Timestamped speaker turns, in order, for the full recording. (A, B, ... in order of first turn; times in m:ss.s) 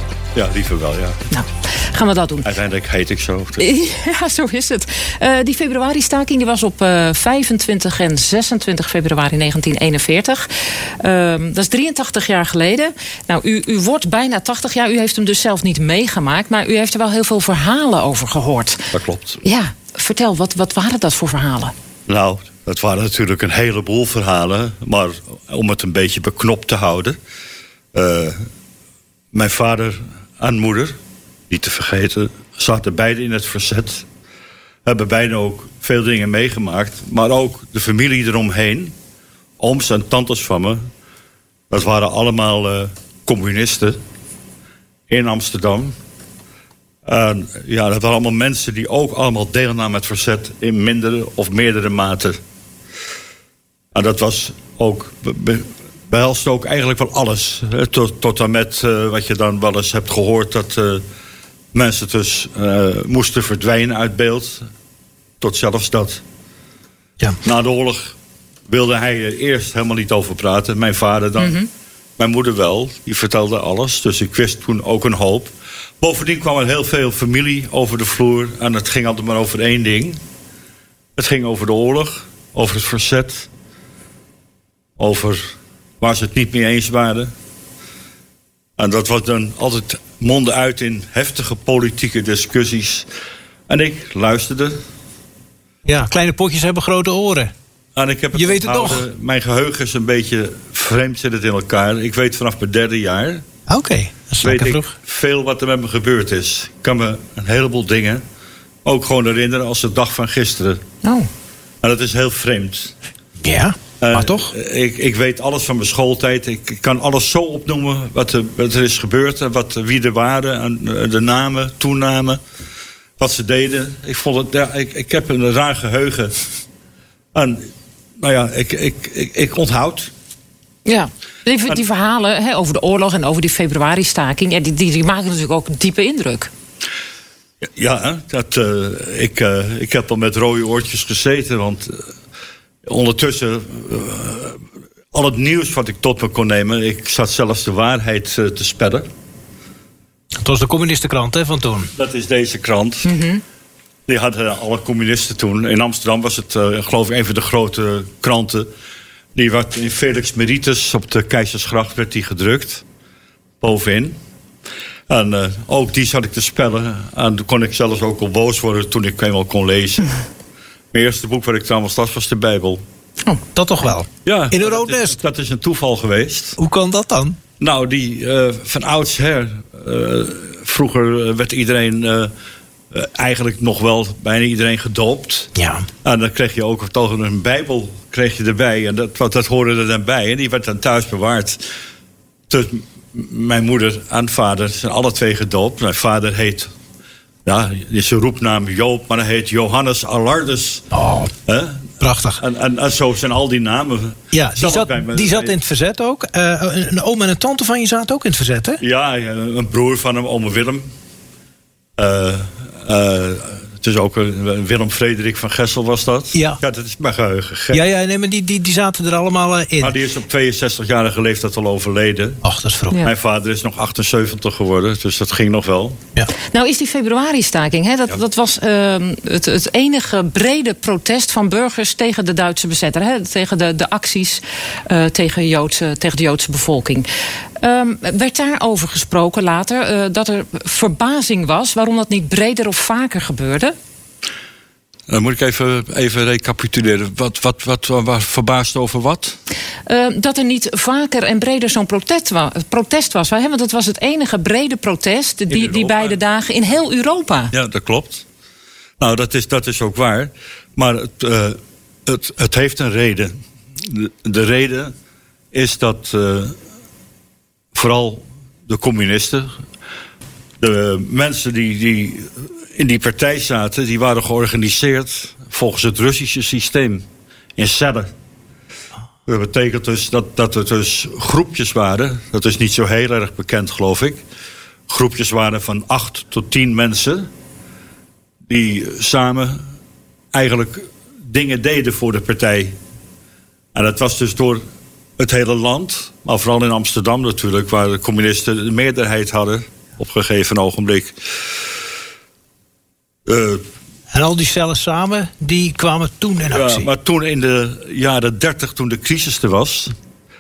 0:00.4-0:01.2 A
0:01.3-0:02.5 B
0:02.4-0:03.7 A
0:03.6-0:18.9 B
0:18.9-0:19.4 A
0:19.4-0:21.7 B
0:22.1-0:27.2 A
0:27.9-0:28.4 A
0:29.3-0:31.0 A
0:31.5-0:34.1 A
0:34.8-0:39.0 A
0:39.6-0:40.8 A
0:41.7-0:44.0 A
0:45.1-0:46.0 A
0:47.1-0:52.4 A
0:53.9-1:01.0 A
1:01.7-1:04.7 A
1:05.4-1:06.2 A
1:07.4-1:08.2 A
1:08.7-1:11.6 A
1:11.4-1:11.7 B
1:12.2-1:20.2 A
1:21.2-1:23.5 A
1:25.0-1:27.3 A
1:28.8-1:33.1 A
1:33.7-1:34.8 A
1:35.9-1:37.5 C
1:38.0-1:43.4 A
1:38.3-1:39.0 C
1:43.7-1:44.9 C
1:44.4-1:48.2 A
1:48.8-1:50.8 A
1:51.0-1:51.3 B
1:51.8-1:52.9 A
1:53.4-1:54.5 C
1:54.0-2:02.4 A
2:03.2-2:06.3 A
2:07.4-2:07.7 A
2:08.2-2:10.1 A
2:10.8-2:16.5 B
2:17.8-2:22.0 A
2:22.8-2:24.6 A
2:25.1-2:29.1 A
2:30.4-2:31.9 C
2:32.0-2:33.1 A
2:33.1-2:33.4 B
2:34.1-2:38.7 A
2:39.4-2:42.8 A
2:43.6-2:44.2 A
2:45.1-2:50.2 A
2:50.9-2:52.8 A
2:53.5-2:55.2 C
2:54.2-2:56.6 A
2:56.6-2:57.4 C
2:57.6-3:02.3 A
3:02.9-3:05.5 A
3:05.6-3:05.9 C
3:06.0-3:11.7 A
3:12.5-3:16.7 A
3:17.5-3:20.9 A
3:20.9-3:21.3 C
3:21.5-3:25.6 A
3:22.0-3:22.4 C
3:24.3-3:28.8 C
3:28.8-3:30.8 A
3:32.0-3:37.8 A
3:36.4-3:36.6 C
3:37.7-3:39.9 C
3:39.8-3:42.4 A
3:42.4-3:43.0 C
3:43.0-3:46.0 A
3:46.5-3:57.1 B
3:57.6-4:03.8 B
4:05.1-4:09.4 A
4:09.9-4:17.5 B
4:15.5-4:16.2 A
4:17.5-4:18.2 A
4:19.0-4:24.9 A
4:25.5-4:26.6 A
4:27.7-4:29.5 A
4:30.6-4:37.0 A
4:37.6-4:38.1 A
4:39.3-4:44.2 A
4:44.9-4:47.3 A
4:48.5-4:49.7 A
4:50.3-4:52.8 A
4:53.8-4:54.6 A
4:55.2-5:01.2 A
5:03.3-5:03.6 A
5:04.1-5:06.9 C
5:06.5-5:09.9 A